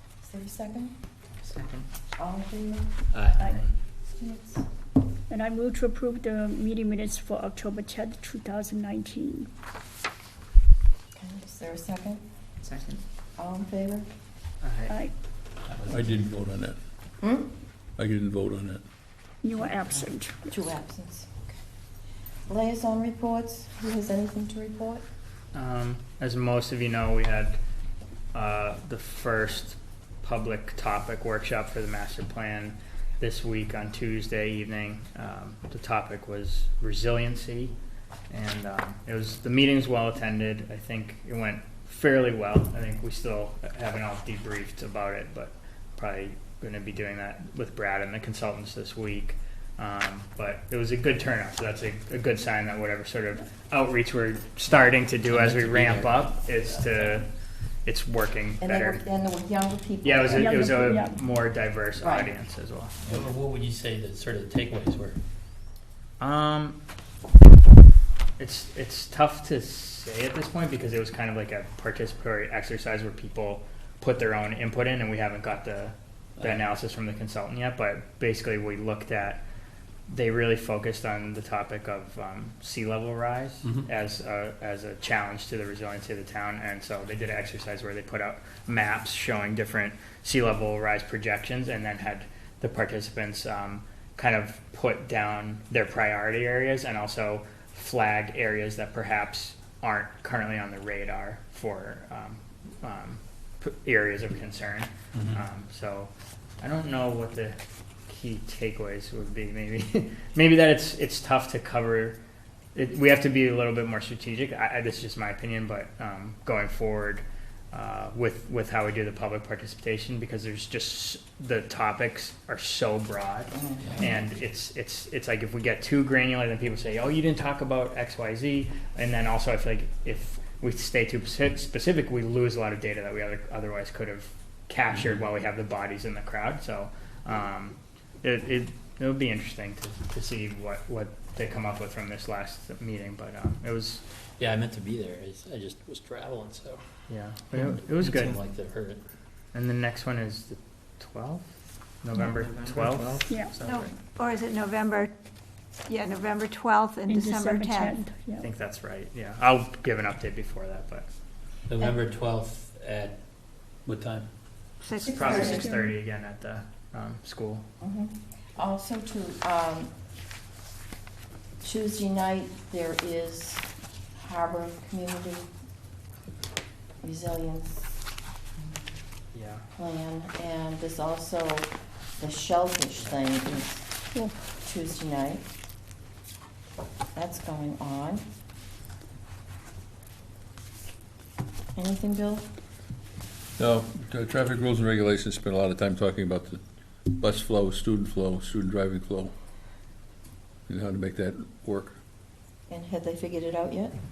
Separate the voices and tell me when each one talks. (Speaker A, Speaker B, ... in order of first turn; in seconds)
Speaker A: 0.2-0.9, 2.1-2.9, 4.2-4.6, 11.1-12.2, 13.4-14.1, 17.2-17.5, 20.5-21.6, 22.5-25.0, 58.6-60.7, 62.0-62.3, 123.5-124.2, 165.0-165.5, 167.8-169.9, 171.6-175.5, 177.0-178.0, 179.7-183.9, 184.6-185.4, 187.1-188.2, 191.8-192.5, 202.7-203.9
Speaker B: 1.4-1.8, 12.6-13.0, 15.7-16.2, 152.2-153.8
Speaker C: 3.1-3.5, 55.3-57.2, 63.0-65.2, 76.4-76.6, 105.1-105.4, 123.8-124.1, 134.9-135.2, 144.4-146.9, 148.0-149.0, 161.7-163.2, 163.8-164.3
Speaker D: 3.4-3.6, 5.3-9.5, 14.9-15.1, 19.4-20.5, 60.3-61.1, 153.3-153.5, 157.1-158.5, 165.4-165.9, 184.1-184.4
Speaker E: 14.6-14.9, 25.5-27.6, 28.3-37.7, 38.3-57.3, 57.8-59.0, 60.0-63.0, 66.2-66.8, 68.4-79.4, 80.1-112.2, 112.7-144.0, 147.1-148.4, 149.5-151.5, 152.0-154.0, 158.4-161.1, 165.0-167.7, 179.3-179.7
Speaker F: 15.8-16.8, 18.0-18.8, 193.6-196.6, 197.1-199.3, 200.7-201.9
Speaker G: 153.7-155.1, 155.9-157.9, 164.8-165.6